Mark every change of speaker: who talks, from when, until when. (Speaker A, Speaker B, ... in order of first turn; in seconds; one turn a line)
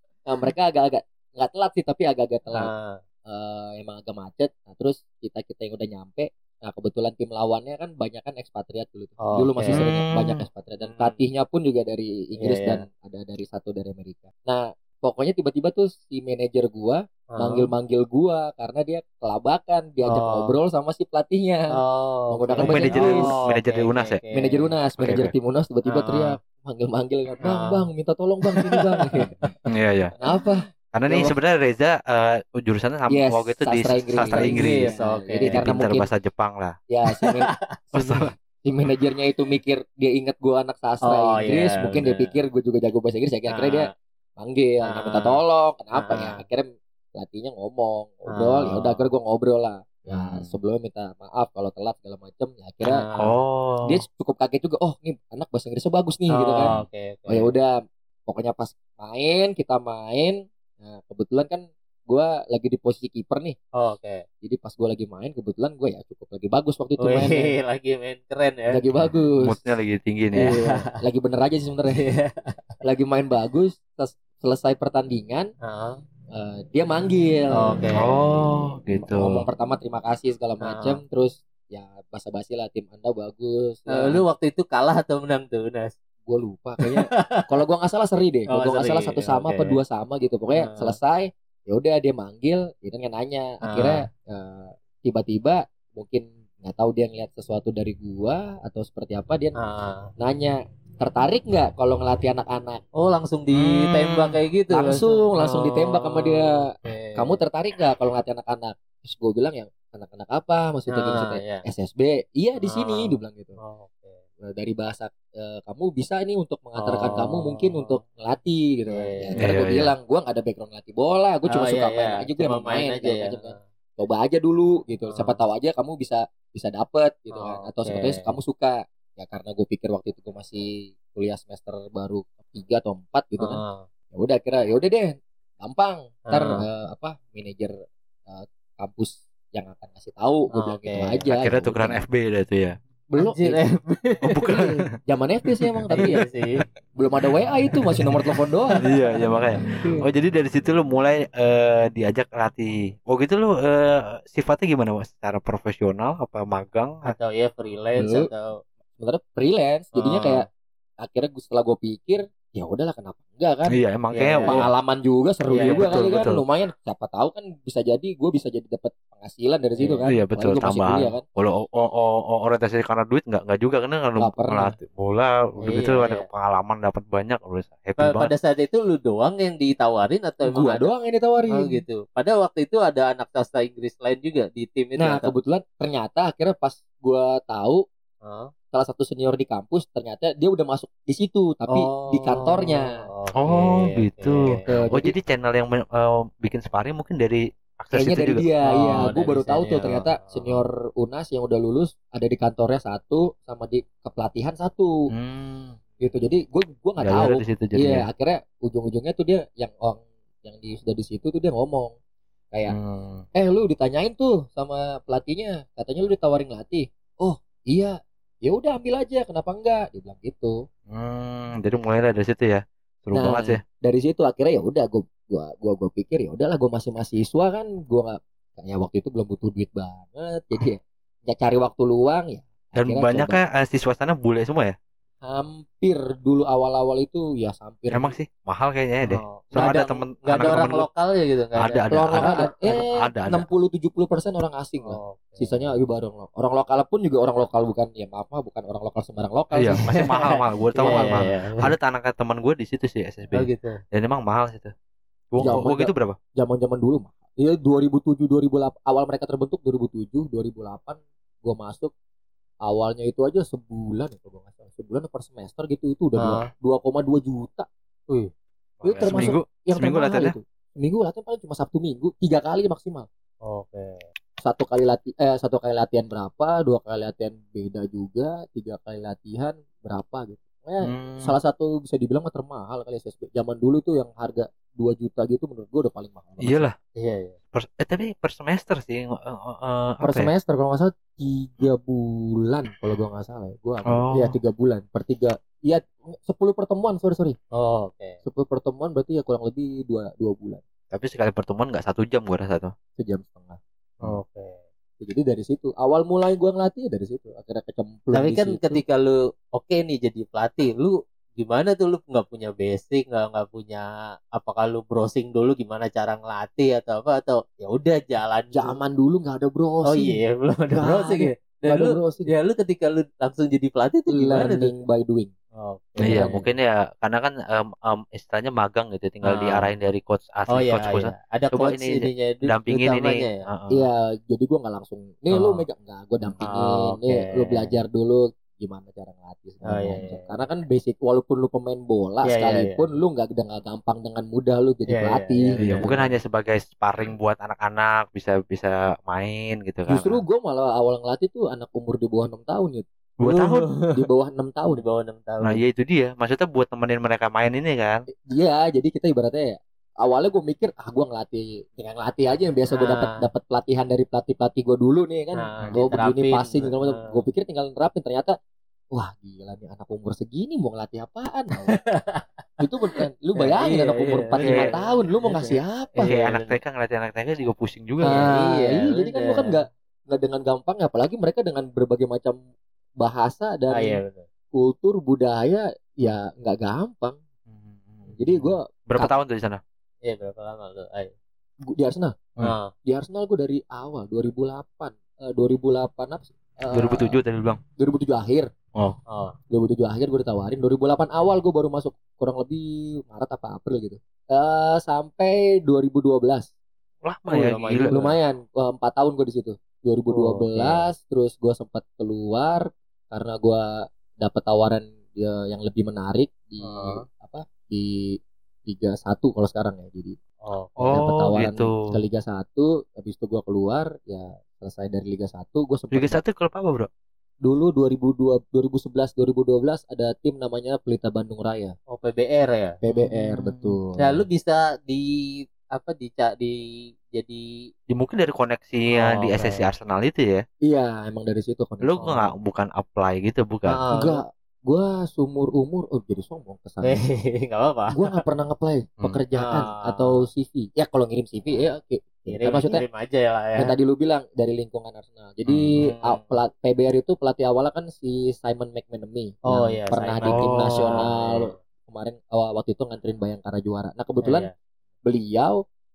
Speaker A: 0.2-2.7
Speaker B: 2.5-3.0
Speaker A: 3.2-21.7
Speaker B: 9.2-9.8
Speaker C: 9.7-10.4
Speaker B: 10.8-11.2
Speaker B: 12.4-12.8
Speaker B: 17.3-17.7
Speaker B: 20.0-20.6
Speaker B: 21.7-24.7
Speaker A: 22.3-23.3
Speaker C: 22.6-24.2
Speaker A: 24.3-29.3
Speaker C: 25.0-25.3
Speaker B: 25.9-26.4
Speaker B: 27.4-27.9
Speaker B: 28.5-29.5
Speaker C: 29.7-30.1
Speaker A: 30.2-31.4
Speaker C: 30.9-34.9
Speaker A: 33.1-36.1
Speaker B: 34.3-35.6
Speaker C: 35.5-36.8
Speaker A: 36.9-53.1
Speaker B: 37.1-37.7
Speaker C: 38.0-38.2
Speaker B: 41.0-42.4
Speaker B: 43.5-43.9
Speaker B: 44.9-45.4
Speaker B: 45.9-46.4
Speaker B: 48.3-49.1
Speaker C: 50.1-50.5
Speaker B: 52.8-53.4
Speaker C: 53.2-54.0
Speaker A: 53.9-56.8
Speaker B: 56.3-57.5
Speaker A: 57.3-57.7
Speaker A: 58.2-63.6
Speaker B: 63.8-64.2
Speaker A: 64.4-67.5
Speaker B: 67.0-68.8
Speaker A: 68.7-69.7
Speaker C: 69.4-70.5
Speaker B: 70.4-70.9
Speaker A: 70.4-72.1
Speaker B: 71.9-72.5
Speaker A: 72.8-75.5
Speaker B: 75.6-76.0
Speaker A: 76.3-77.8
Speaker B: 77.5-78.0
Speaker C: 78.0-79.5
Speaker A: 78.9-84.2
Speaker B: 80.6-81.0
Speaker B: 83.9-85.9
Speaker A: 86.2-99.5
Speaker B: 86.9-87.4
Speaker B: 88.5-89.8
Speaker B: 90.5-91.0
Speaker B: 93.7-94.0
Speaker B: 99.6-100.1
Speaker A: 100.2-102.8
Speaker B: 103.0-107.4
Speaker A: 104.7-113.6
Speaker B: 110.9-111.6
Speaker B: 112.6-114.2
Speaker A: 114.4-137.7
Speaker B: 116.8-118.0
Speaker B: 118.9-119.5
Speaker C: 119.4-119.9
Speaker B: 121.5-123.6
Speaker B: 125.1-125.4
Speaker B: 127.3-128.3
Speaker B: 133.4-133.9
Speaker B: 136.3-136.6
Speaker A: 138.3-142.0
Speaker B: 140.5-141.2
Speaker C: 141.3-142.8
Speaker A: 143.1-143.6
Speaker B: 143.2-144.4
Speaker C: 144.2-144.7
Speaker A: 144.5-146.2
Speaker C: 145.6-146.1
Speaker B: 145.9-146.6
Speaker A: 147.0-148.8
Speaker B: 148.7-149.1
Speaker C: 148.8-157.1
Speaker A: 149.7-150.0
Speaker B: 157.0-158.6
Speaker A: 158.0-158.3
Speaker A: 159.0-160.5
Speaker C: 160.0-160.4
Speaker A: 161.0-163.8
Speaker C: 163.7-164.7
Speaker B: 164.1-164.6
Speaker A: 164.4-171.2
Speaker B: 165.5-166.1
Speaker C: 165.6-166.4
Speaker B: 169.8-170.0
Speaker C: 170.1-178.3
Speaker A: 174.2-174.7
Speaker B: 175.6-176.2
Speaker B: 178.0-180.9
Speaker A: 180.5-181.8
Speaker B: 181.5-185.3
Speaker A: 185.0-187.8
Speaker B: 188.2-188.5
Speaker A: 188.7-192.9
Speaker B: 191.7-194.8
Speaker C: 193.4-199.1
Speaker A: 194.7-195.1
Speaker A: 197.9-204.9
Speaker B: 198.6-200.6
Speaker C: 205.1-205.8
Speaker A: 206.0-212.0
Speaker C: 207.0-208.1
Speaker C: 212.7-213.2
Speaker A: 213.3-220.6
Speaker C: 220.9-223.6
Speaker A: 223.1-233.4
Speaker C: 232.8-234.8
Speaker A: 235.2-238.1
Speaker C: 237.9-240.9
Speaker B: 239.0-242.8
Speaker C: 241.6-243.5
Speaker A: 241.9-249.8
Speaker B: 244.8-245.6
Speaker C: 249.5-254.7
Speaker B: 249.8-251.6
Speaker A: 250.8-251.2
Speaker B: 253.3-253.8
Speaker C: 255.3-256.1
Speaker A: 255.4-261.9
Speaker A: 262.6-267.7
Speaker B: 266.2-266.5
Speaker C: 268.8-270.4
Speaker A: 268.8-273.1
Speaker B: 273.4-274.0
Speaker A: 274.4-286.6
Speaker C: 280.9-281.4
Speaker C: 286.4-286.7
Speaker B: 287.0-287.4
Speaker C: 287.5-290.3
Speaker A: 290.0-297.4
Speaker C: 293.9-294.3
Speaker B: 297.5-298.2
Speaker A: 298.2-300.6
Speaker C: 300.9-302.7
Speaker A: 303.0-303.6
Speaker B: 304.0-304.6
Speaker A: 305.0-308.8
Speaker B: 308.1-318.8
Speaker A: 318.5-320.2
Speaker B: 319.9-324.7
Speaker A: 320.8-322.3
Speaker A: 324.1-325.3
Speaker B: 325.6-326.3
Speaker C: 326.0-333.9
Speaker A: 326.1-326.5
Speaker B: 329.2-329.7
Speaker B: 330.5-333.4
Speaker A: 333.7-345.9
Speaker B: 335.3-335.6
Speaker B: 336.4-337.7
Speaker B: 339.7-340.4
Speaker B: 342.2-342.8
Speaker B: 344.9-346.1
Speaker C: 345.6-350.2
Speaker A: 349.9-352.9
Speaker C: 353.2-353.7
Speaker B: 353.2-354.0
Speaker A: 353.9-354.8
Speaker B: 354.7-355.6
Speaker C: 355.4-358.1
Speaker A: 358.3-368.3
Speaker B: 362.7-363.1
Speaker B: 365.4-367.0
Speaker A: 368.9-371.8
Speaker B: 371.7-372.2
Speaker A: 372.6-376.1
Speaker B: 373.4-376.5
Speaker C: 374.4-374.7
Speaker C: 376.0-378.2
Speaker B: 378.0-379.6
Speaker A: 378.0-382.4
Speaker A: 383.0-384.0
Speaker B: 383.7-384.3
Speaker A: 384.5-387.2
Speaker C: 387.5-388.2
Speaker A: 388.2-389.1
Speaker C: 388.9-389.6
Speaker B: 390.0-391.1
Speaker A: 391.7-392.2
Speaker B: 392.4-392.7
Speaker A: 392.9-397.2
Speaker C: 396.7-397.6
Speaker A: 397.8-398.5
Speaker B: 399.1-399.4
Speaker A: 399.5-406.5
Speaker C: 407.0-408.0
Speaker B: 407.3-408.1
Speaker A: 407.9-413.6
Speaker B: 410.1-410.9
Speaker A: 414.2-418.1
Speaker B: 416.6-417.0
Speaker A: 418.6-420.1
Speaker B: 420.4-420.8
Speaker C: 420.8-421.9
Speaker A: 420.9-426.2
Speaker C: 425.9-426.9
Speaker A: 427.4-431.8
Speaker B: 431.9-432.8
Speaker A: 432.8-434.2
Speaker C: 432.9-433.8
Speaker B: 434.0-437.4
Speaker C: 437.9-440.4
Speaker B: 438.9-439.6
Speaker A: 440.6-442.3
Speaker C: 441.8-443.8
Speaker B: 443.7-444.2
Speaker A: 443.9-447.0
Speaker B: 446.8-448.2
Speaker A: 447.9-452.8
Speaker B: 449.4-450.1
Speaker B: 452.3-453.7
Speaker A: 453.6-464.5
Speaker C: 455.5-455.7
Speaker B: 455.8-456.3
Speaker B: 459.5-461.5
Speaker C: 460.3-461.0
Speaker B: 464.2-464.5
Speaker A: 465.0-465.6